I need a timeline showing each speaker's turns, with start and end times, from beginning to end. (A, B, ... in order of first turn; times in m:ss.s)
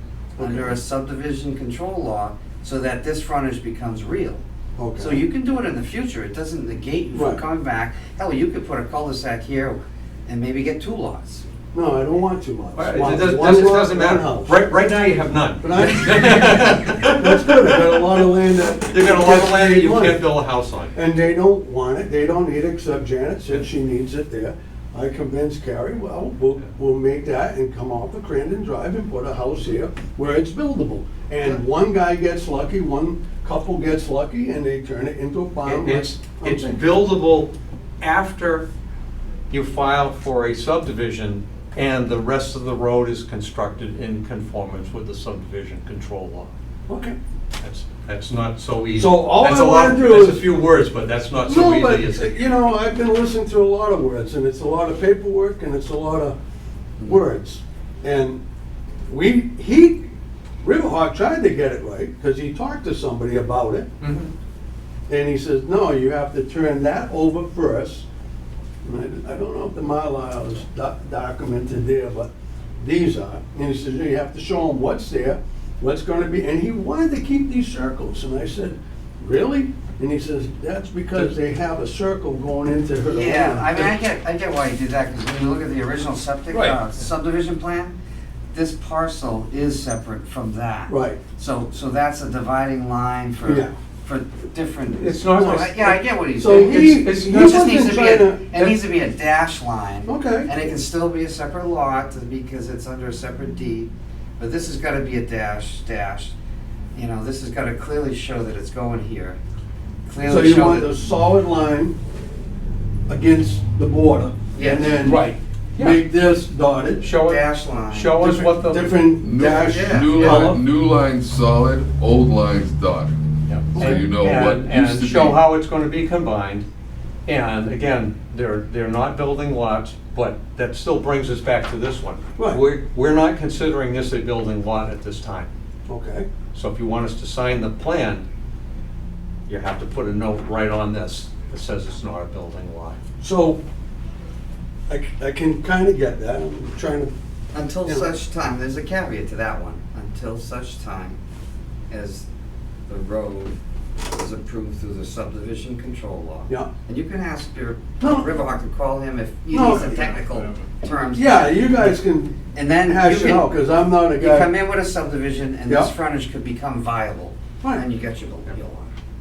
0:00.4-0:00.8 A
0:00.4-0:04.4 B
0:04.8-0:05.2 A
0:05.0-0:11.4 B
0:07.2-0:07.4 A
0:11.7-0:14.6 A
0:12.8-0:18.2 C
0:15.6-0:20.2 A
0:18.8-0:20.9 C
0:20.9-0:36.8 A
0:35.7-0:38.7 C
0:39.5-0:46.5 C
0:46.9-0:47.2 A
0:47.6-0:52.3 C
0:49.0-0:50.5 A
0:51.4-0:56.4 A
0:57.0-0:58.4 A
0:59.1-1:00.1 A
1:00.6-1:03.9 A
1:04.0-1:04.3 C
1:05.1-1:08.1 A
1:08.8-1:23.9 A
1:23.1-1:28.0 B
1:26.5-1:26.8 C
1:28.5-1:46.3 B
1:30.9-1:31.2 A
1:33.4-1:33.7 A
1:35.0-1:35.9 C
1:35.4-1:35.7 A
1:36.3-1:38.4 A
1:36.5-1:37.9 C
1:40.1-1:40.5 A
1:46.9-1:49.4 B
1:50.1-1:50.9 B
1:50.2-1:52.0 A
1:53.1-1:57.0 A
1:54.5-1:54.9 B
1:55.0-1:56.0 C
1:57.0-1:59.0 C
1:57.2-1:58.2 B
1:58.2-2:00.6 A
1:59.2-2:03.2 D
1:59.5-2:00.5 B
2:00.2-2:00.5 C
2:03.5-2:06.7 C
2:03.7-2:05.4 D
2:03.8-2:04.0 A
2:07.3-2:15.5 C
2:12.4-2:12.6 A
2:15.9-2:16.3 A
2:16.5-2:18.2 C
2:19.5-2:23.0 C
2:23.2-2:23.6 A
2:24.9-2:27.1 A
2:27.5-2:31.2 B
2:31.9-2:32.2 B
2:32.9-2:33.6 B
2:34.1-2:41.7 B
2:38.0-2:38.3 A
2:39.5-2:40.0 A
2:41.1-2:44.5 A
2:42.6-2:43.5 B
2:44.2-2:48.9 B